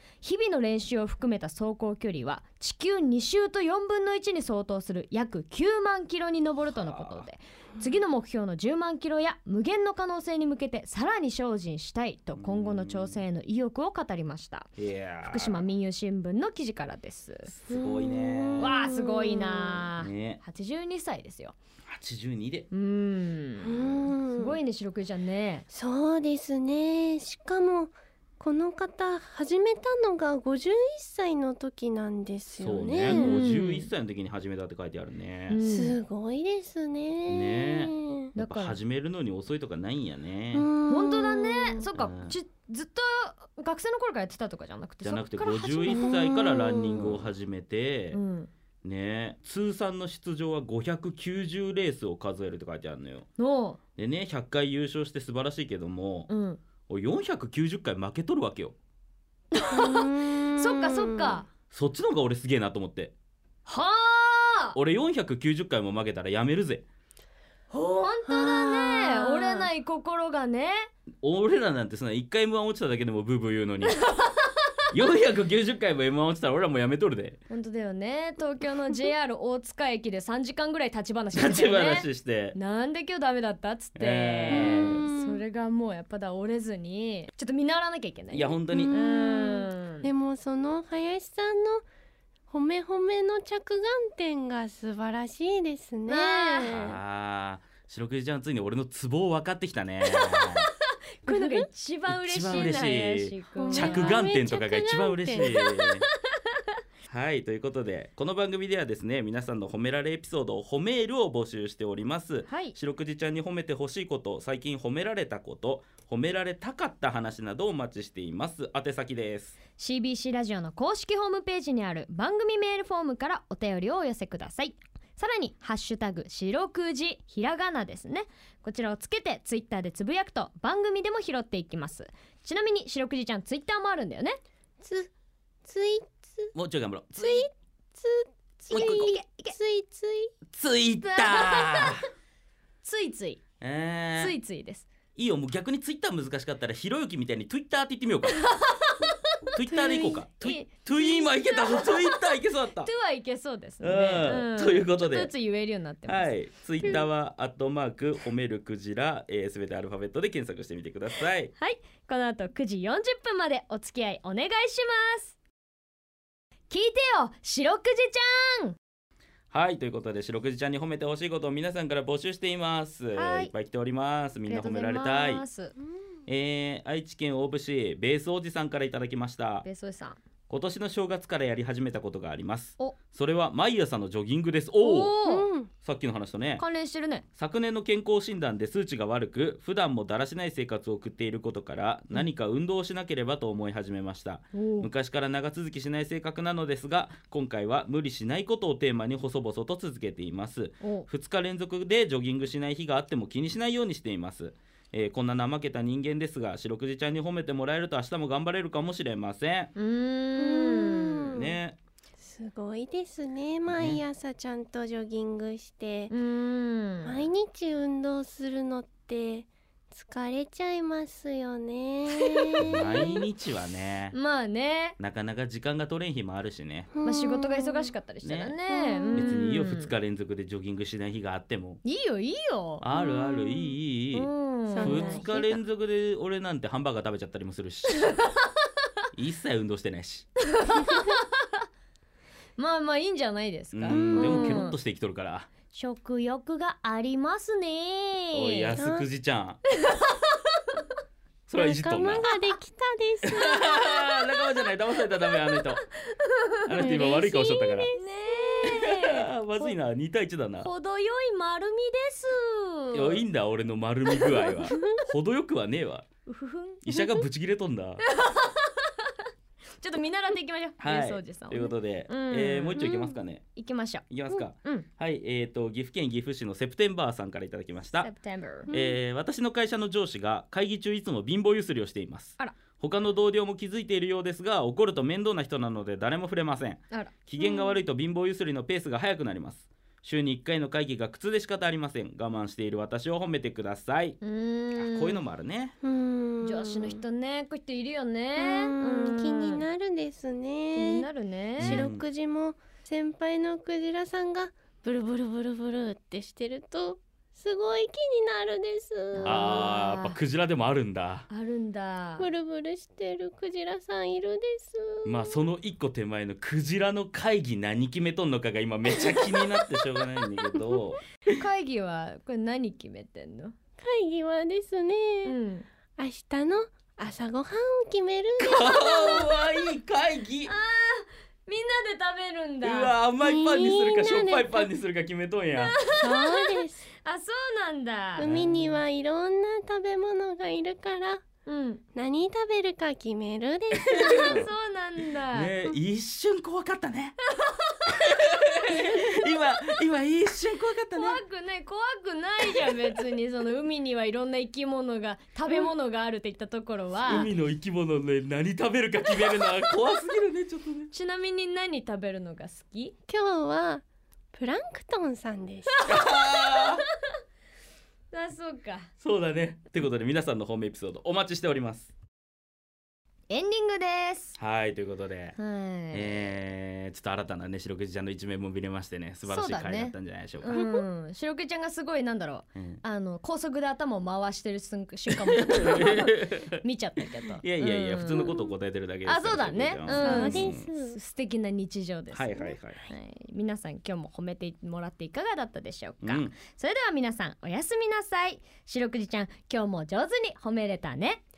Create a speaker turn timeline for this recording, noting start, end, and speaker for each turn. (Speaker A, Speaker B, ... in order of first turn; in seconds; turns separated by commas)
Speaker A: 0.2-14.7, Speaker B: 6.7-7.2, Speaker B: 12.4-13.2, Speaker B: 14.8-15.6, Speaker A: 15.2-17.5, Speaker B: 17.5-18.7, Speaker C: 17.7-19.9, Speaker A: 18.6-21.6, Speaker B: 20.0-20.4, Speaker B: 21.9-22.7, Speaker A: 22.7-25.7, Speaker C: 23.6-24.6, Speaker C: 25.7-33.5, Speaker B: 32.6-35.6, Speaker A: 33.1-33.9, Speaker A: 35.5-36.0, Speaker C: 35.6-38.3, Speaker B: 37.3-40.7, Speaker A: 38.4-38.8, Speaker C: 40.5-41.9, Speaker A: 40.9-46.5, Speaker B: 41.9-42.4, Speaker B: 45.0-48.2, Speaker C: 45.9-47.2, Speaker A: 48.1-48.5, Speaker B: 48.8-53.3, Speaker A: 53.4-53.8, Speaker B: 54.0-56.3, Speaker A: 56.3-56.6, Speaker B: 56.9-58.8, Speaker A: 59.5-61.5, Speaker C: 59.7-61.4, Speaker B: 61.7-63.1, Speaker A: 63.7-64.8, Speaker B: 64.8-66.9, Speaker A: 67.7-70.9, Speaker C: 68.2-69.7, Speaker B: 71.2-74.0, Speaker A: 74.0-74.5, Speaker B: 74.9-77.4, Speaker A: 77.5-90.1, Speaker B: 81.3-82.6, Speaker B: 84.0-85.0, Speaker C: 84.5-85.4, Speaker B: 88.3-89.0, Speaker C: 88.7-91.8, Speaker C: 92.5-97.0, Speaker A: 96.1-96.8, Speaker B: 96.7-100.7, Speaker A: 100.1-100.5, Speaker A: 101.2-104.2, Speaker C: 101.3-101.7, Speaker B: 102.1-106.1, Speaker C: 103.6-105.6, Speaker A: 105.5-105.9, Speaker B: 107.1-119.6, Speaker A: 112.4-112.8, Speaker A: 119.8-134.4, Speaker C: 134.8-135.1, Speaker C: 135.7-136.5, Speaker B: 136.5-137.5, Speaker C: 137.2-140.3, Speaker B: 138.7-139.2, Speaker A: 138.7-139.6, Speaker B: 140.5-142.0, Speaker A: 141.0-142.0, Speaker A: 142.8-143.4, Speaker B: 143.6-144.4, Speaker A: 144.2-144.9, Speaker B: 145.2-148.4, Speaker A: 148.4-157.0, Speaker B: 149.5-152.9, Speaker B: 153.8-155.3, Speaker B: 156.1-161.5, Speaker A: 161.6-165.4, Speaker A: 166.7-168.8, Speaker B: 169.5-175.4, Speaker A: 173.2-173.5, Speaker A: 174.4-175.8, Speaker B: 176.3-179.7, Speaker A: 179.6-180.2, Speaker B: 180.5-185.2, Speaker A: 184.8-185.5, Speaker C: 185.2-185.7, Speaker B: 185.8-186.6, Speaker A: 186.6-187.2, Speaker B: 187.4-209.7, Speaker A: 194.5-194.9, Speaker A: 200.8-201.1, Speaker A: 209.8-211.3, Speaker C: 210.4-211.6, Speaker B: 211.3-211.8, Speaker C: 212.2-216.2, Speaker B: 213.7-214.0, Speaker A: 216.1-217.3, Speaker C: 217.0-223.1, Speaker A: 222.2-223.1, Speaker B: 222.6-224.2, Speaker A: 224.1-225.0, Speaker B: 225.0-226.9, Speaker C: 226.9-227.9, Speaker A: 227.0-229.9, Speaker B: 228.2-228.6, Speaker C: 228.7-229.3, Speaker B: 229.1-231.8, Speaker A: 231.8-235.5, Speaker B: 232.8-238.1, Speaker C: 232.9-233.2, Speaker C: 234.7-235.6, Speaker B: 239.1-240.3, Speaker A: 240.5-241.2, Speaker C: 240.8-241.2, Speaker A: 242.6-244.8, Speaker B: 243.7-245.5, Speaker C: 243.9-244.7, Speaker A: 245.7-248.8, Speaker B: 248.3-249.6, Speaker C: 248.8-249.1, Speaker A: 249.8-250.1, Speaker B: 251.5-252.3, Speaker C: 251.6-253.9, Speaker B: 253.3-255.8, Speaker A: 256.2-256.6, Speaker B: 256.7-257.9, Speaker C: 256.7-258.5, Speaker A: 257.9-259.7, Speaker B: 258.7-260.7, Speaker A: 260.6-263.2, Speaker B: 262.9-266.1, Speaker A: 264.2-264.9, Speaker A: 266.3-267.2, Speaker B: 266.9-268.0, Speaker A: 268.1-269.1, Speaker A: 269.8-272.9, Speaker B: 270.8-273.4, Speaker C: 272.8-273.1, Speaker A: 273.6-274.1, Speaker B: 274.1-278.1, Speaker A: 274.6-274.9, Speaker A: 278.0-278.7, Speaker C: 278.7-279.0, Speaker B: 278.7-294.2, Speaker A: 286.9-287.7, Speaker A: 294.2-295.2, Speaker B: 294.8-295.8, Speaker C: 295.8-297.0, Speaker A: 296.4-299.6, Speaker C: 298.4-301.1, Speaker A: 300.7-301.9, Speaker C: 301.6-309.4, Speaker B: 301.6-302.0, Speaker A: 309.1-310.2, Speaker B: 309.2-311.3, Speaker A: 311.3-312.3, Speaker C: 312.2-315.4, Speaker B: 315.1-321.0, Speaker A: 321.3-323.6, Speaker C: 323.8-325.4, Speaker A: 325.2-325.7, Speaker C: 326.0-329.4, Speaker B: 328.4-330.5, Speaker A: 330.5-333.0, Speaker B: 332.6-335.8, Speaker C: 333.2-334.7, Speaker A: 335.6-338.3, Speaker C: 335.9-336.9, Speaker C: 338.2-341.2, Speaker B: 338.2-338.8, Speaker A: 341.5-341.8, Speaker C: 341.9-344.5, Speaker A: 343.9-345.5, Speaker B: 344.2-344.5, Speaker B: 345.3-347.2, Speaker A: 347.4-347.9, Speaker B: 347.9-351.2, Speaker A: 348.6-349.2, Speaker A: 350.9-357.3, Speaker B: 357.1-360.9, Speaker A: 360.9-362.9, Speaker C: 363.1-363.8, Speaker C: 364.3-365.8, Speaker A: 365.7-366.8, Speaker B: 365.9-366.8, Speaker A: 368.1-368.9, Speaker B: 369.0-371.9, Speaker A: 373.3-374.4, Speaker B: 374.4-375.4, Speaker A: 375.4-376.2, Speaker B: 375.9-380.6, Speaker A: 379.3-388.4, Speaker C: 380.5-380.9, Speaker B: 385.1-386.6, Speaker B: 387.4-390.7, Speaker C: 388.1-388.4, Speaker A: 389.1-401.2, Speaker C: 389.9-391.0, Speaker B: 392.1-392.8, Speaker B: 396.0-396.4